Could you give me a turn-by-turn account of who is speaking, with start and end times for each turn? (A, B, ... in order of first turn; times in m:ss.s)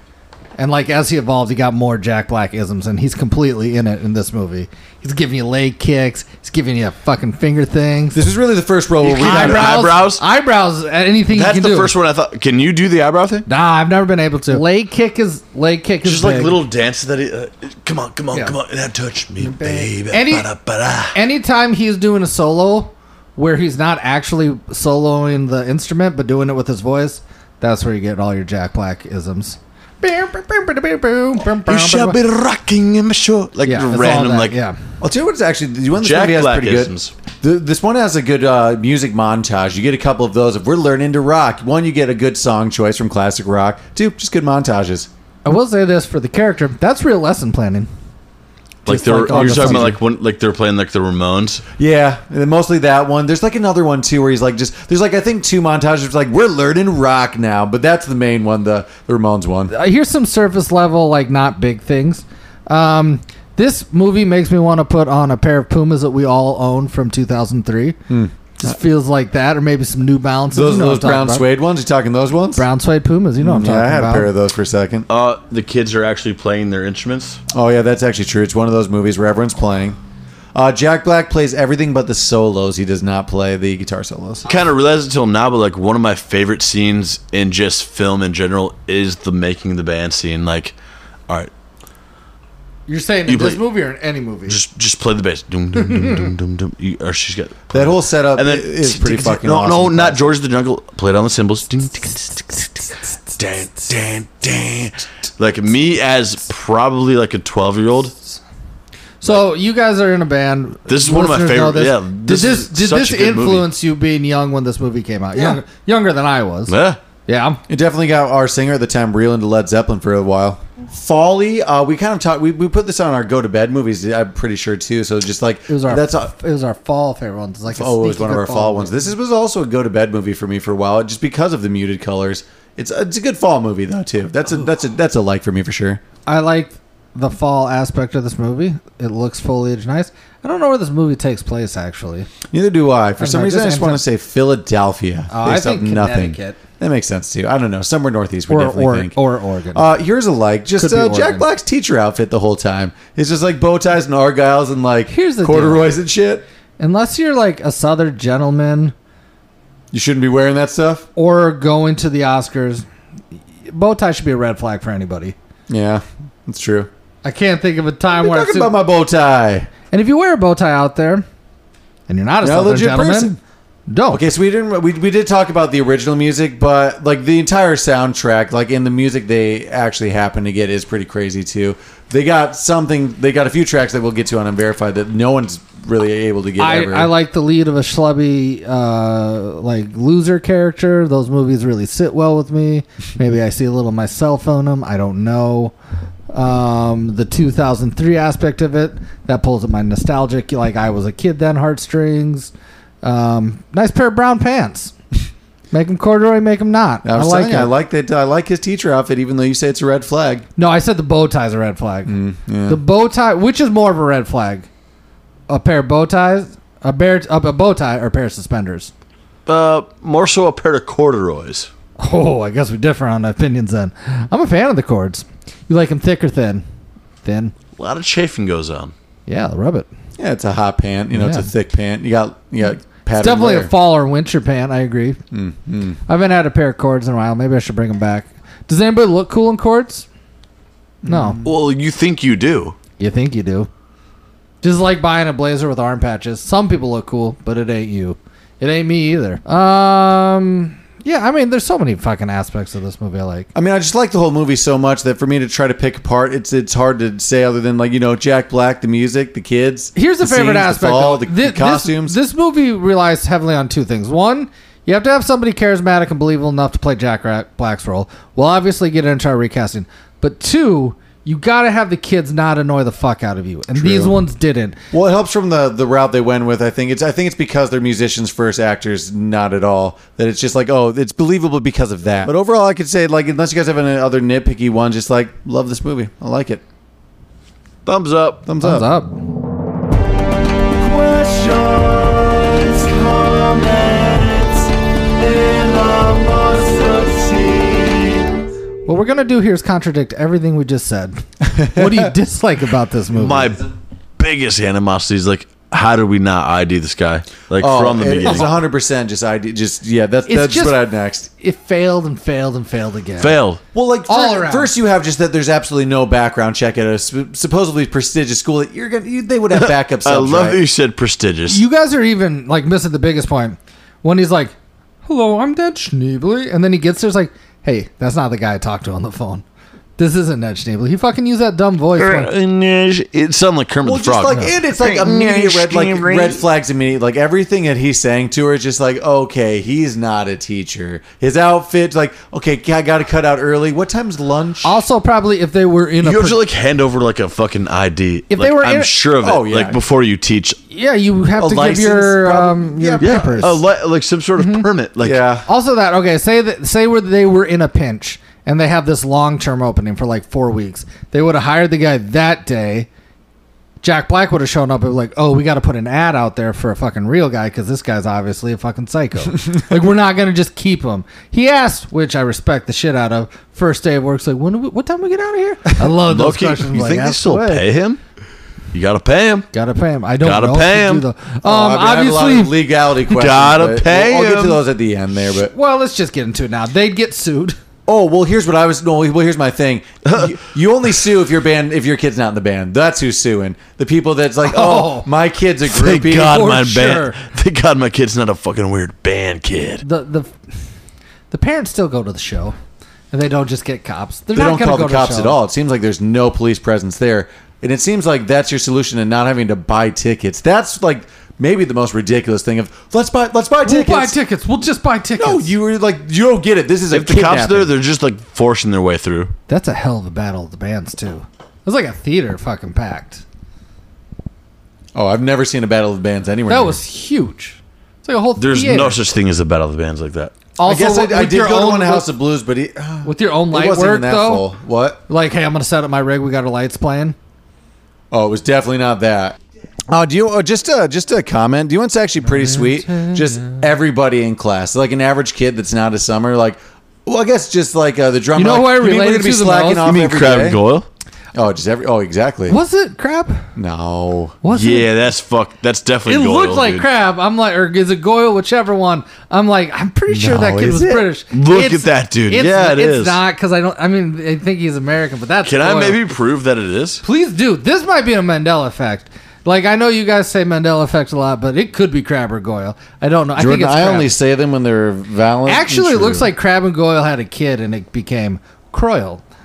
0:00.6-0:08.2 A
0:08.1-0:09.9 B
0:09.0-0:10.2 C
0:09.1-0:11.9 A
0:11.3-0:13.5 C
0:13.5-0:16.6 A
0:16.0-0:21.2 C
0:19.7-0:20.5 A
0:21.1-0:32.2 A
0:31.7-0:34.6 C
0:33.7-0:34.8 A
0:35.0-0:45.1 B
0:36.0-0:37.1 C
0:45.4-0:47.9 A
0:48.9-0:50.0 A
0:48.9-0:51.6 C
0:49.3-0:50.0 B
0:51.8-0:59.7 B
0:59.7-1:08.0 A
1:08.1-1:08.8 B
1:08.6-1:11.5 A
1:10.5-1:12.7 B
1:12.6-1:14.3 A
1:13.4-1:15.1 B
1:15.1-1:17.4 C
1:17.5-1:20.0 B
1:20.5-1:24.5 B
1:24.5-1:30.8 C
1:32.9-1:34.6 A
1:33.3-1:33.6 C
1:34.5-1:42.8 C
1:37.7-1:40.3 B
1:43.4-1:48.2 C
1:49.2-1:56.8 A
1:50.9-1:53.7 C
1:56.7-1:57.0 C
1:57.3-1:57.6 A
1:57.7-2:06.3 B
2:05.7-2:09.1 A
2:07.7-2:16.0 B
2:16.3-2:22.3 A
2:22.5-2:29.2 B
2:23.2-2:24.0 A
2:25.3-2:26.6 A
2:28.5-2:29.9 A
2:29.7-2:36.4 B
2:30.8-2:31.5 A
2:35.1-2:35.9 A
2:36.8-2:38.9 A
2:39.9-2:41.1 B
2:41.2-2:42.8 A
2:43.7-2:45.4 A
2:45.7-2:46.9 B
2:47.2-2:48.8 A
2:48.1-2:49.7 B
2:49.9-2:51.2 A
2:52.1-2:53.4 A
2:52.4-2:53.4 B
2:53.9-2:54.2 A
2:54.1-3:07.1 B
3:06.6-3:15.7 A
3:16.3-3:22.5 A
3:23.0-3:24.9 A
3:25.7-3:27.7 A
3:27.0-3:30.4 B
3:30.6-3:34.7 A
3:32.1-3:32.8 B
3:35.5-3:38.9 A
3:39.5-3:41.7 C
3:42.0-3:46.6 A
3:47.2-3:47.5 A
3:47.8-3:48.9 C
3:49.3-3:49.9 A
3:50.2-3:53.7 B
3:51.1-3:51.5 A
3:53.1-3:55.2 A
3:55.3-3:56.0 B
3:56.1-4:00.1 A
4:01.0-4:01.5 B
4:01.0-4:01.4 A
4:01.4-4:02.8 C
4:03.0-4:03.7 A
4:04.6-4:13.5 A
4:13.6-4:22.2 B
4:20.0-4:34.8 A
4:33.7-4:34.2 B
4:34.9-4:46.6 B
4:47.8-4:48.4 C
4:48.5-4:48.9 B
4:48.6-4:49.2 A
4:50.7-4:58.3 B
4:58.9-5:03.6 A
5:01.4-5:02.1 B
5:03.1-5:08.5 C
5:07.6-5:11.3 B
5:10.3-5:10.8 A
5:11.4-5:13.4 A
5:13.2-5:13.6 C
5:13.7-5:20.6 B
5:14.1-5:14.7 A
5:19.6-5:21.6 C
5:21.5-5:29.4 A
5:30.0-5:32.3 A
5:32.0-5:36.4 C
5:33.8-5:44.7 B
5:44.6-5:46.4 A
5:46.0-5:50.6 C
5:48.3-5:48.9 A
5:49.2-5:49.8 B
5:50.7-5:53.6 A
5:51.4-5:53.5 B
5:53.0-5:55.2 C
5:54.4-5:54.7 A
5:55.0-5:55.5 B
5:55.5-6:02.9 A
6:03.8-6:17.6 A
6:15.8-6:18.0 C
6:18.7-6:19.5 C
6:19.5-6:22.5 A
6:20.2-6:21.0 C
6:21.4-6:25.5 B
6:23.1-6:24.6 C
6:25.5-6:27.6 A
6:27.9-6:36.5 B
6:30.1-6:30.4 C
6:34.4-6:35.1 A
6:35.7-6:39.8 C
6:36.2-6:37.2 A
6:39.8-6:40.3 A
6:41.3-6:42.6 A
6:43.1-6:45.4 A
6:44.4-6:54.2 B
6:53.6-6:55.5 A
6:55.2-6:57.7 B
6:56.9-6:59.3 C
6:59.5-7:03.2 A
7:04.9-7:06.8 B
7:06.5-7:09.0 A
7:08.4-7:10.3 C
7:10.6-7:12.1 A
7:10.6-7:15.0 B
7:13.0-7:14.5 A
7:15.1-7:17.2 A
7:18.1-7:19.4 B
7:19.9-7:30.6 B
7:22.2-7:23.6 A
7:28.4-7:29.9 A
7:29.8-7:30.9 C
7:31.3-7:32.6 B
7:32.5-7:33.5 A
7:33.6-7:34.4 B
7:34.4-7:34.9 A
7:34.5-7:36.9 C
7:36.1-7:46.0 A
7:40.1-7:41.1 B
7:41.3-7:43.2 C
7:45.4-7:47.0 C
7:47.0-7:54.1 A
7:53.4-7:56.3 B
7:55.5-7:59.2 A